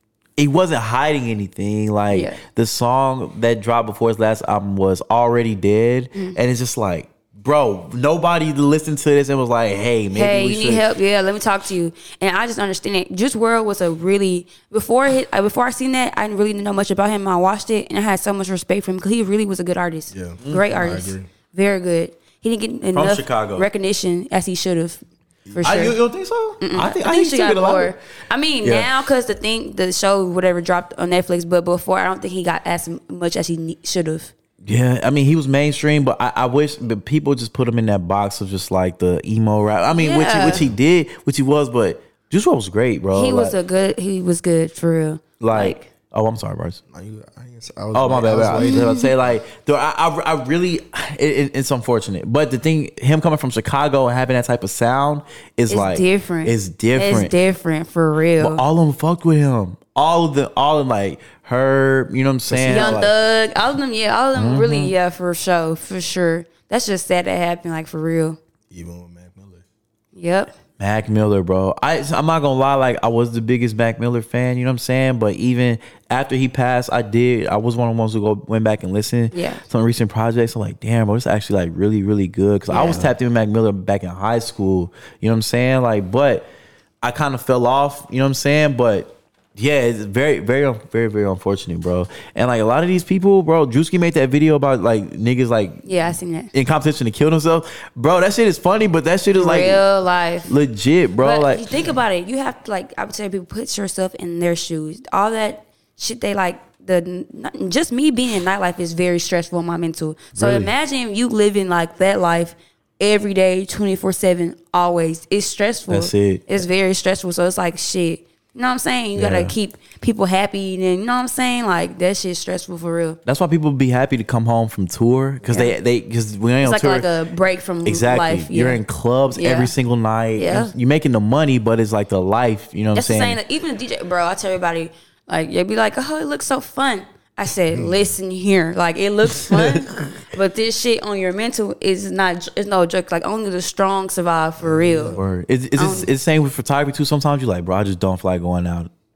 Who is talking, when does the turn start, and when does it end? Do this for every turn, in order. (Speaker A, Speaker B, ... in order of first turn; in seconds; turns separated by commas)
Speaker A: 0.4-10.8, Speaker B: 2.1-2.4, Speaker B: 10.1-26.0, Speaker C: 20.1-21.3, Speaker A: 22.9-23.7, Speaker C: 25.5-25.8, Speaker A: 25.6-27.9, Speaker B: 26.6-34.3, Speaker A: 28.6-28.9, Speaker A: 34.6-43.5, Speaker B: 39.9-40.6, Speaker B: 43.1-45.9, Speaker A: 45.4-46.8, Speaker C: 46.9-49.0, Speaker A: 47.9-57.3, Speaker B: 48.7-49.1, Speaker B: 55.7-58.6, Speaker A: 58.4-63.1, Speaker C: 62.5-63.1, Speaker B: 62.6-68.4, Speaker A: 64.3-64.9, Speaker C: 68.7-69.6, Speaker B: 70.1-70.5, Speaker A: 70.8-86.5, Speaker B: 79.3-79.6, Speaker B: 82.7-83.0, Speaker A: 87.0-95.8, Speaker B: 95.8-96.5, Speaker A: 96.5-99.8, Speaker B: 99.3-100.5, Speaker A: 100.5-101.6, Speaker B: 101.2-123.2, Speaker A: 110.3-110.7, Speaker A: 115.9-116.5, Speaker A: 119.2-119.5, Speaker A: 123.2-127.1, Speaker B: 125.5-125.7, Speaker B: 126.6-128.8, Speaker A: 127.8-133.4, Speaker B: 129.3-129.7, Speaker B: 130.3-130.7, Speaker B: 132.9-145.2, Speaker C: 137.7-138.1, Speaker C: 144.6-145.2, Speaker A: 145.1-148.9, Speaker B: 145.8-146.1